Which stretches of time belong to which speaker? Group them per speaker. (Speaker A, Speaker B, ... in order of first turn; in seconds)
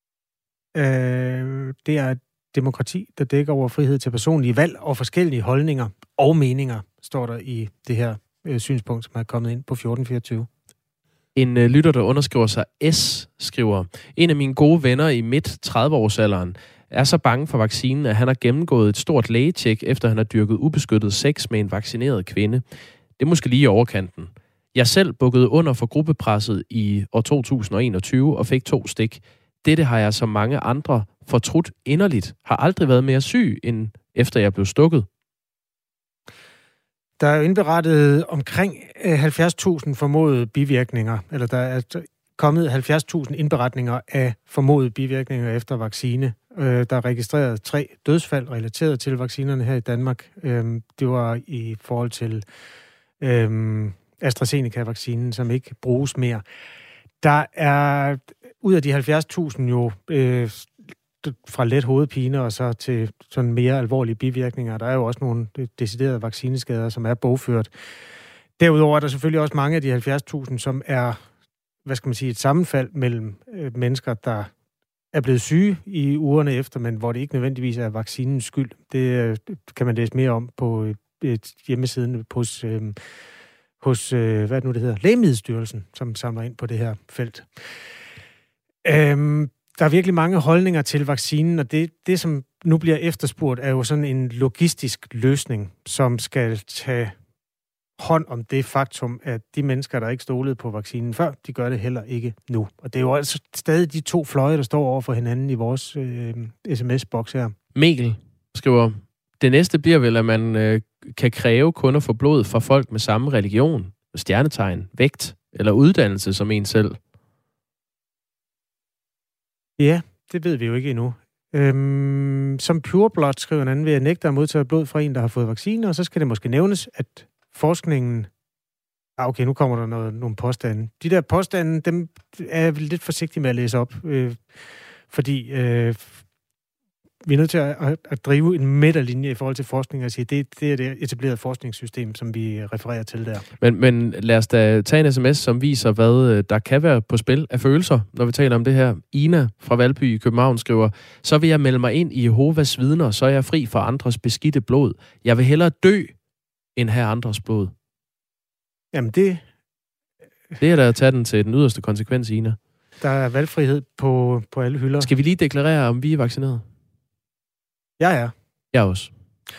Speaker A: 0.7-10.5, 37.2-52.5, 53.2-56.4, 57.2-67.7, 68.6-71.2, 71.8-74.5, 75.1-83.0, 83.8-87.5, 88.8-97.2, 98.0-107.5, 119.8-128.3, 129.2-134.6, 135.1-136.2, 137.2-143.4, 158.9-159.4, 163.0-165.1, 168.0-168.3
Speaker B: 11.3-22.6, 23.2-35.1, 107.8-117.0, 143.6-156.2, 156.8-157.7, 160.6-162.6, 165.0-166.7, 168.7-169.1